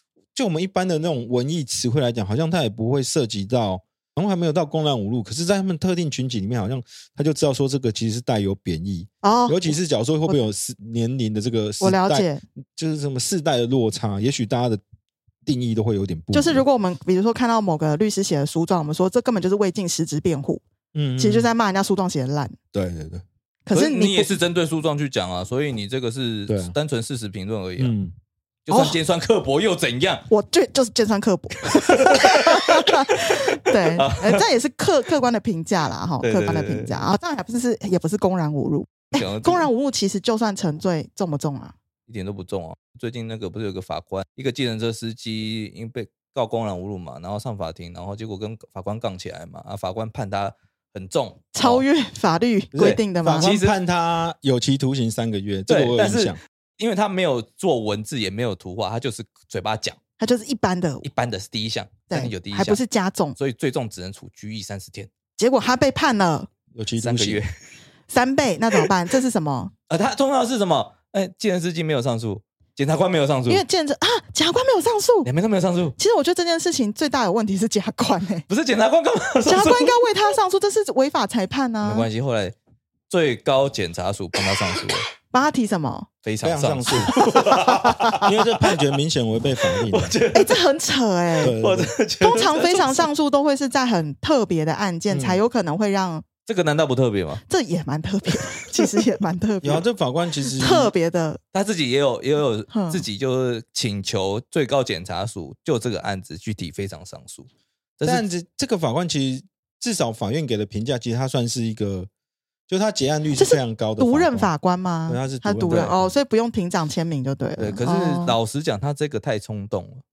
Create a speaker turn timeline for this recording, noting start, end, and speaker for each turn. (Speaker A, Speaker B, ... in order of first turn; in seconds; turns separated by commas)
Speaker A: 0.3-14.8, Speaker B: 9.2-9.8, Speaker B: 11.8-12.4, Speaker A: 15.4-16.6, Speaker B: 16.3-20.6, Speaker A: 20.9-21.5, Speaker B: 21.2-22.5, Speaker A: 22.7-23.2, Speaker B: 23.6-24.3, Speaker C: 23.7-27.9, Speaker A: 26.5-26.7, Speaker A: 27.8-28.1, Speaker C: 28.6-30.2, Speaker B: 28.7-29.0, Speaker B: 30.3-41.7, Speaker C: 31.8-34.4, Speaker C: 36.2-37.0, Speaker C: 39.1-39.7, Speaker C: 42.1-51.8, Speaker B: 51.5-53.5, Speaker A: 52.7-56.4, Speaker C: 52.8-53.8, Speaker C: 55.7-60.0, Speaker B: 60.2-61.0, Speaker C: 61.0-62.8, Speaker B: 62.1-63.4, Speaker C: 63.4-65.1, Speaker B: 65.4-66.5, Speaker A: 66.7-67.4, Speaker C: 67.0-67.5, Speaker B: 68.1-69.7, Speaker C: 69.9-73.6, Speaker B: 73.5-75.3, Speaker C: 75.2-76.0, Speaker B: 76.0-78.4, Speaker C: 78.5-80.2, Speaker B: 79.5-82.1, Speaker C: 81.8-82.5, Speaker C: 83.1-85.0, Speaker B: 85.3-86.1, Speaker C: 86.2-88.8, Speaker A: 86.4-87.1, Speaker B: 87.5-88.2, Speaker A: 88.2-90.1, Speaker C: 89.6-90.6, Speaker B: 90.3-91.6, Speaker A: 91.4-91.9, Speaker C: 91.5-93.1, Speaker B: 92.2-96.3, Speaker A: 95.1-95.4, Speaker C: 96.5-97.4, Speaker B: 97.5-99.8, Speaker A: 99.6-100.9, Speaker B: 100.5-101.4, Speaker C: 101.5-107.5, Speaker B: 102.7-103.0, Speaker C: 108.0-108.3, Speaker A: 108.0-112.1, Speaker A: 112.7-114.5, Speaker B: 113.3-118.4, Speaker A: 115.1-116.1, Speaker C: 115.7-115.9, Speaker C: 117.6-120.0